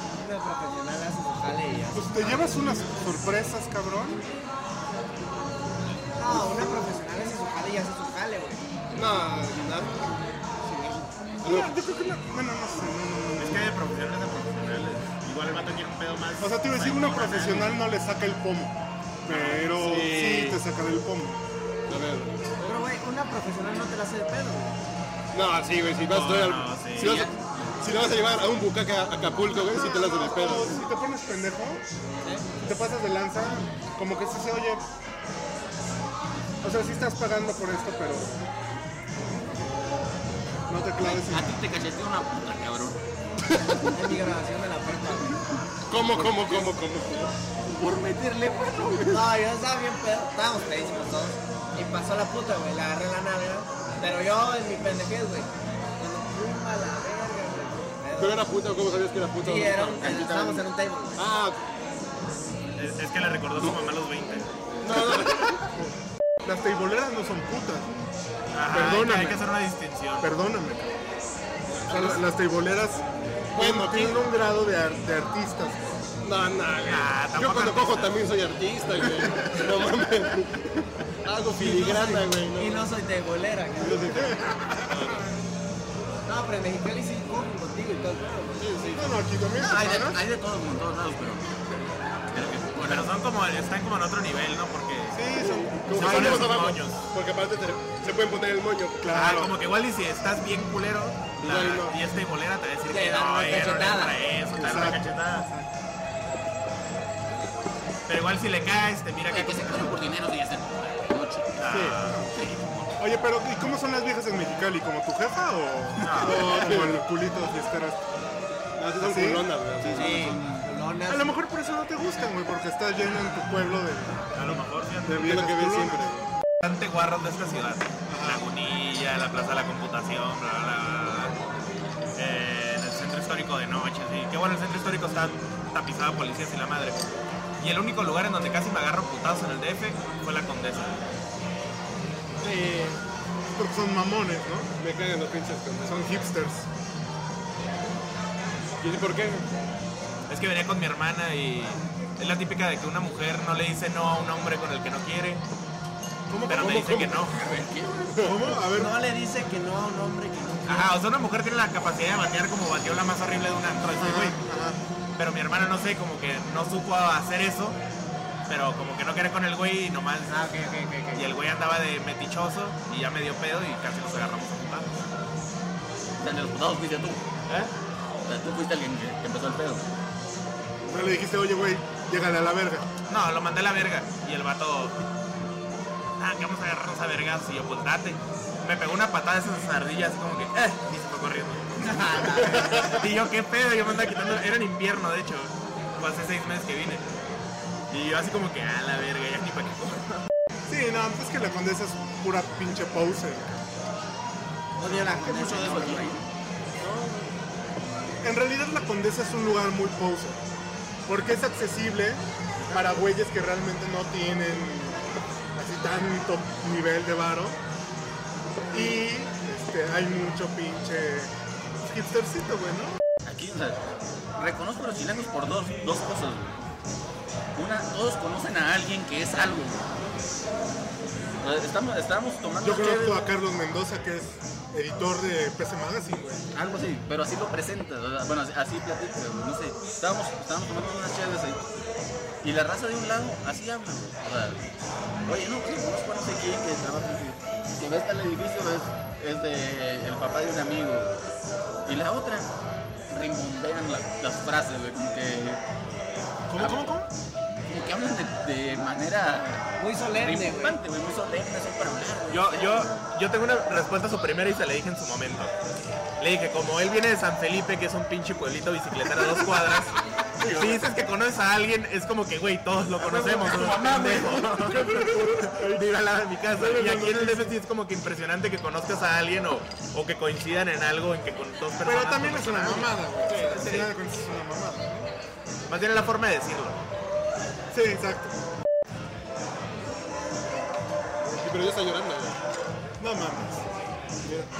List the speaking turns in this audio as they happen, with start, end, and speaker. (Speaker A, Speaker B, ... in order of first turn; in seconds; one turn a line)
Speaker A: 0.2-2.6
Speaker B: 1.9-4.2
Speaker A: 6.2-8.6
Speaker C: 8.9-10.1
Speaker A: 10.6-11.1
Speaker C: 11.4-11.8
Speaker B: 11.4-13.7
Speaker D: 13.3-17.8
Speaker B: 16.4-21.4
Speaker D: 19.2-19.7
Speaker C: 19.6-20.6
Speaker C: 21.9-22.5
Speaker A: 22.6-24.8
Speaker C: 25.3-30.8
Speaker D: 26.1-27.2
Speaker E: 26.9-27.3
Speaker B: 29.7-31.8
Speaker B: 32.6-34.8
Speaker B: 36.6-38.3
Speaker B: 40.7-41.6
Speaker E: 41.0-43.0
Speaker A: 43.9-45.4
Speaker C: 45.9-47.4
Speaker A: 46.1-46.7
Speaker E: 47.6-49.3
Speaker A: 49.1-58.4
Speaker C: 58.2-60.0
Speaker A: 59.4-61.2
Speaker E: 59.9-60.6
Speaker C: 61.1-61.6
Speaker D: 62.7-64.5
Speaker C: 64.8-65.6
Speaker B: 66.4-67.9
Speaker D: 68.5-70.3
Speaker B: 68.7-69.5
Speaker B: 70.2-71.0
Speaker C: 71.7-72.2
Speaker B: 71.9-75.8
Speaker C: 73.5-74.2
Speaker C: 76.2-80.7
Speaker D: 76.8-78.2
Speaker C: 81.2-82.9
Speaker A: 81.5-84.3
Speaker C: 83.8-85.3
Speaker A: 86.2-88.6
Speaker C: 88.6-89.2
Speaker B: 88.9-90.2
Speaker E: 89.6-91.5
Speaker E: 92.3-93.1
Speaker D: 92.8-95.2
Speaker B: 95.1-96.7
Speaker C: 95.3-99.1
Speaker D: 95.9-97.0
Speaker B: 99.0-99.6
Speaker D: 99.1-105.5
Speaker C: 101.4-102.0
Speaker A: 102.9-104.2
Speaker B: 104.5-105.7
Speaker D: 108.1-110.0
Speaker E: 109.2-112.9
Speaker D: 111.5-112.3
Speaker B: 111.7-112.3
Speaker B: 113.0-118.0
Speaker D: 116.0-116.7
Speaker C: 116.2-117.0
Speaker C: 118.8-120.4
Speaker B: 119.0-119.5
Speaker A: 119.8-121.3
Speaker E: 119.9-120.1
Speaker B: 121.1-126.1
Speaker D: 124.3-125.3
Speaker C: 125.2-126.3
Speaker D: 126.6-131.4
Speaker B: 128.1-128.4
Speaker D: 132.2-137.0
Speaker D: 137.6-141.0
Speaker C: 142.4-143.0
Speaker B: 143.6-144.7
Speaker C: 144.8-146.0
Speaker B: 145.9-146.7
Speaker C: 148.8-149.5
Speaker D: 150.3-155.4
Speaker B: 156.3-157.2
Speaker D: 156.4-157.4
Speaker E: 157.2-158.2
Speaker C: 158.1-158.5
Speaker B: 158.2-158.9
Speaker A: 158.7-160.9
Speaker D: 160.7-164.4
Speaker B: 163.9-164.8
Speaker D: 165.2-167.8
Speaker D: 168.5-170.5
Speaker A: 170.3-171.3
Speaker D: 171.1-174.9
Speaker E: 176.2-177.2
Speaker D: 177.5-177.7
Speaker E: 178.2-179.8
Speaker B: 180.8-182.8
Speaker D: 183.1-185.0
Speaker D: 186.2-197.0
Speaker A: 191.8-193.0
Speaker D: 197.9-200.2
Speaker B: 200.7-203.5
Speaker A: 204.8-206.1
Speaker E: 204.8-206.2
Speaker B: 208.2-210.4
Speaker B: 211.1-215.0
Speaker B: 215.6-217.6
Speaker B: 218.7-223.0
Speaker E: 223.2-223.8
Speaker E: 224.4-226.6
Speaker E: 227.6-229.8
Speaker E: 231.4-233.3
Speaker B: 232.6-236.4
Speaker E: 236.5-241.6
Speaker E: 242.4-244.6
Speaker E: 245.2-251.2
Speaker E: 251.8-252.5
Speaker E: 253.1-255.6
Speaker B: 256.5-257.1
Speaker E: 257.7-262.9
Speaker A: 259.8-260.8
Speaker D: 262.3-265.5
Speaker D: 266.2-270.0
Speaker E: 270.4-270.9
Speaker D: 270.5-283.9
Speaker E: 273.0-274.9
Speaker B: 274.7-275.9
Speaker B: 276.5-277.6
Speaker B: 281.8-285.1
Speaker D: 285.7-286.8
Speaker B: 287.7-288.4
Speaker C: 291.2-292.4
Speaker B: 293.0-293.6
Speaker C: 294.2-294.5